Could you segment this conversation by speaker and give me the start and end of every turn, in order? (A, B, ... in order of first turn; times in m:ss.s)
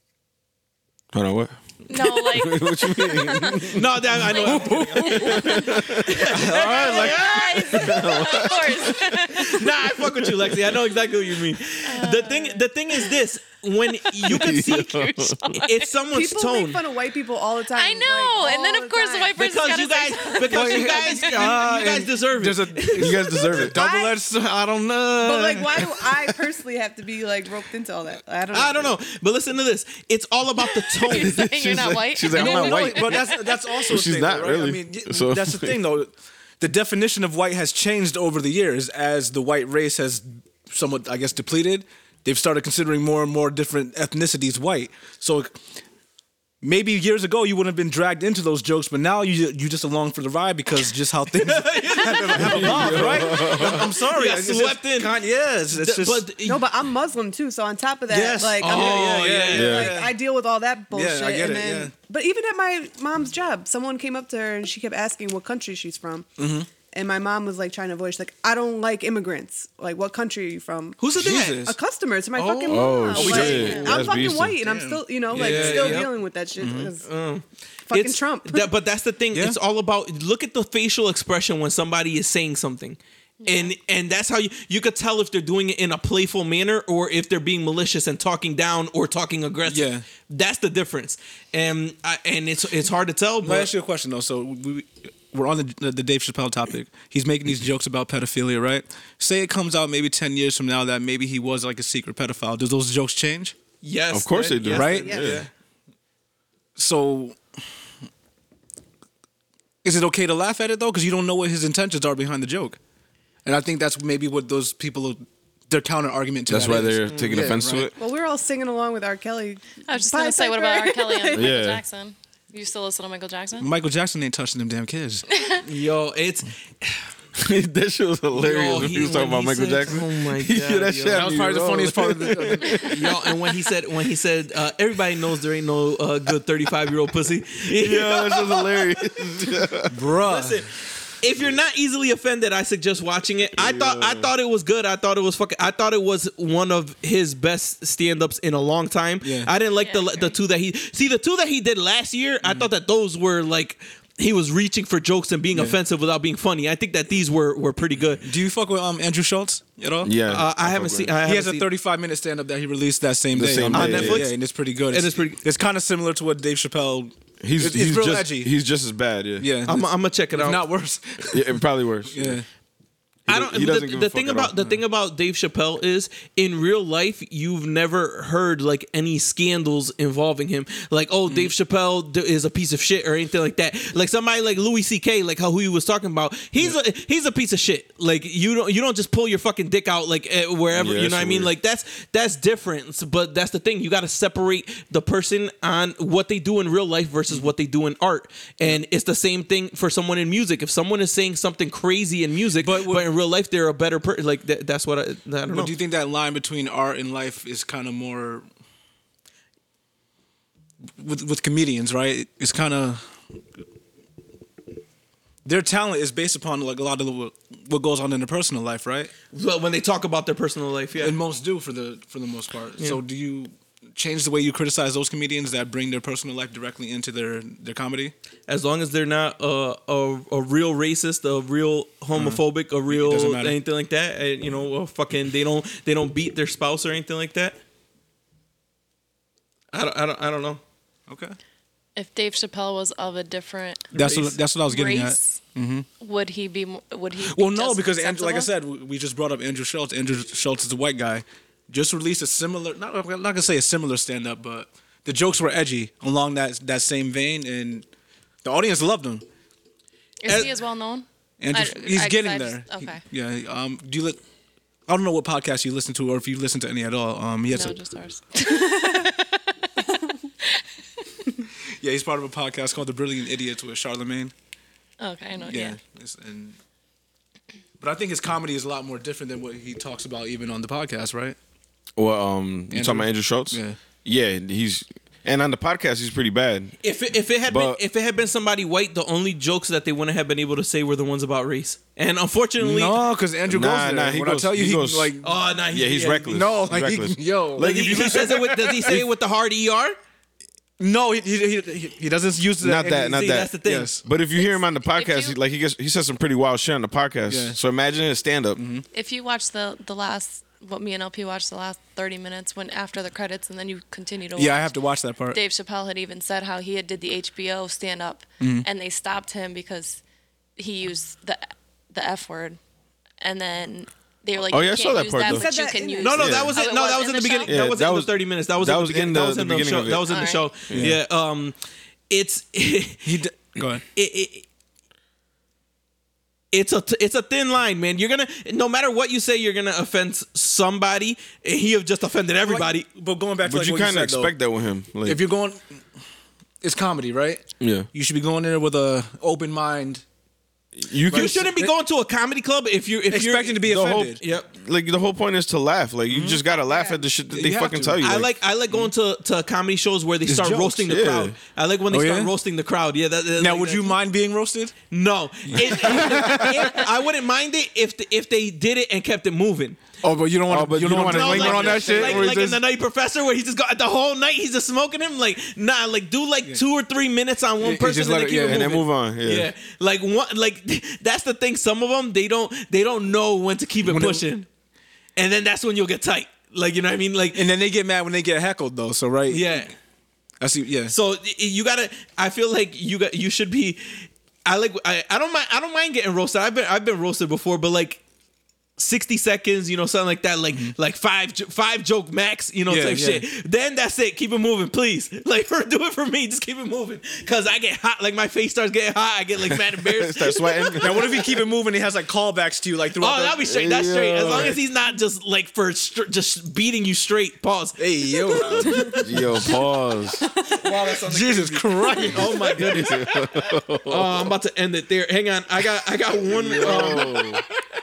0:01.1-0:03.9 A
0:01.9-0:09.7 B
0:03.5-0:08.0 C
0:04.4-0:05.4 D
0:05.0-0:07.1 A
0:06.3-0:07.2 D
0:07.6-0:09.1 A
0:09.3-0:16.8 C
0:11.8-0:13.1 B
0:14.0-0:15.8 B
0:14.2-0:15.5 A
0:16.1-0:19.4 E
0:17.7-0:21.4 B
0:19.4-0:23.4 C
0:20.4-0:26.2 D
0:23.0-0:23.8 A
0:23.6-0:24.2 E
0:25.2-0:28.9 E
0:28.5-0:31.4 C
0:31.0-0:33.3 B
0:31.1-0:33.2 A
0:32.3-0:45.6 D
0:33.8-0:35.8 A
0:46.6-0:56.3 D
0:51.4-0:56.6 C
0:52.4-0:53.9 A
0:56.4-1:17.0 E
0:58.1-1:00.1 D
0:58.6-0:59.9 C
0:59.5-0:59.9 A
1:00.9-1:01.9 D
1:06.4-1:06.7 D
1:11.0-1:11.6 C
1:11.0-1:11.7 D
1:12.4-1:14.0 C
1:12.7-1:14.6 A
1:13.3-1:13.9 B
1:13.4-1:13.8 D
1:14.6-1:16.9 D
1:15.3-1:16.1 C
1:17.0-1:33.7 C
1:17.9-1:18.7 E
1:23.4-1:23.8 B
1:29.7-1:30.0 D
1:33.4-1:43.5 D
1:43.8-1:45.2 C
1:44.1-1:45.4 A
1:44.6-1:45.5 D
1:45.0-1:45.4 E
1:46.8-1:47.4 D
1:49.8-1:52.8 D
1:53.4-1:57.9 D
1:56.5-1:57.9 A
1:57.1-1:57.4 C
1:57.9-2:01.6 E
1:59.8-2:03.7 B
2:01.3-2:01.8 A
2:03.6-2:05.2 D
2:05.4-2:05.6 B
2:05.6-2:07.0 C
2:07.4-2:13.2 A
2:08.4-2:11.5 C
2:11.1-2:12.9 D
2:12.7-2:19.2 C
2:17.7-2:19.9 A
2:19.9-2:20.6 D
2:20.2-2:38.2 C
2:23.6-2:24.3 A
2:29.2-2:29.5 D
2:29.8-2:30.3 B
2:32.4-2:32.7 D
2:35.5-2:35.8 D
2:38.2-2:40.1 D
2:40.0-2:41.1 A
2:40.2-2:41.7 C
2:41.2-2:48.5 D
2:43.3-2:44.3 A
2:43.7-2:44.3 C
2:44.9-2:45.4 C
2:47.4-2:49.5 A
2:49.4-2:52.4 D
2:49.6-2:50.6 C
2:51.3-2:52.4 A
2:53.3-2:54.5 A
2:53.3-3:25.7 C
3:10.7-3:11.5 A
3:22.6-3:23.0 D
3:25.5-3:28.4 D
3:31.0-3:33.1 D
3:35.4-3:39.1 D
3:39.3-3:41.2 C
3:41.0-3:48.1 D
3:48.5-3:57.6 C
3:52.2-3:53.6 D
3:59.7-4:00.6 C
4:01.1-4:01.4 D
4:02.0-4:04.0 B
4:03.9-4:05.8 D
4:03.9-4:04.4 C
4:04.6-4:05.4 B
4:06.0-4:08.5 B
4:07.3-4:17.8 D
4:18.4-4:19.2 D
4:20.2-4:23.0 B
4:20.3-4:20.6 C
4:21.4-4:24.2 D
4:24.9-4:27.8 D
4:27.5-4:29.4 B
4:31.8-4:34.3 D
4:35.0-4:35.8 B
4:35.4-4:36.5 D
4:37.8-4:41.4 D
4:42.0-4:46.7 A
4:42.7-4:43.8 D
4:46.8-4:53.0 C
4:47.5-4:47.8 A
4:52.6-4:55.3 D
4:53.5-4:55.1 A
4:55.2-4:56.5 C
4:55.7-4:58.2 A
4:56.2-4:59.0 D
4:57.6-5:00.0 C
5:00.8-5:04.0 D
5:02.6-5:08.6 A
5:03.1-5:03.9 C
5:04.4-5:05.4 B
5:07.3-5:07.6 D
5:08.6-5:08.8 D
5:08.9-5:14.7 B
5:14.4-5:15.4 D
5:15.3-5:20.0 B
5:18.4-5:18.7 D
5:20.6-5:22.6 B
5:23.2-5:27.5 B
5:24.5-5:25.5 A
5:25.2-5:26.3 E
5:26.0-5:31.5 C
5:26.1-5:26.5 A
5:27.5-5:30.9 A
5:30.1-5:30.5 B
5:30.7-5:31.0 D
5:32.1-5:33.2 C
5:33.0-5:33.8 D
5:33.9-5:34.4 C
5:36.5-5:42.9 C
5:42.4-5:44.3 D
5:43.4-5:45.2 A
5:45.0-5:45.8 D
5:46.6-5:50.0 D
5:47.6-5:47.9 A
5:50.8-5:51.6 A
5:51.1-5:54.5 C
5:53.1-5:54.2 D
5:53.6-5:58.3 A
5:56.1-5:56.4 D
5:56.5-5:57.0 E
5:57.3-5:58.0 D
5:58.0-6:04.0 C
6:00.2-6:00.9 D
6:00.8-6:01.4 A
6:01.9-6:02.3 D
6:03.4-6:04.7 D
6:04.9-6:09.9 C
6:05.5-6:06.8 D
6:10.0-6:12.6 D
6:10.5-6:12.3 A
6:11.0-6:24.5 C
6:17.6-6:18.8 D
6:18.4-6:19.5 A
6:23.8-6:24.2 D
6:25.2-6:27.4 C
6:27.3-6:29.6 D
6:29.3-6:29.7 C
6:30.4-6:30.9 D
6:30.9-6:38.0 C
6:38.8-6:51.2 C
6:42.7-6:43.2 D
6:49.8-6:51.2 A
6:50.8-6:53.4 D
6:53.0-6:57.8 C
6:53.5-6:54.6 A
6:57.8-6:59.0 D
6:58.3-6:58.9 C
6:58.4-7:00.2 A
6:58.7-6:59.0 E
7:00.4-7:07.4 C
7:01.0-7:02.6 D
7:02.6-7:04.3 A
7:06.3-7:07.4 A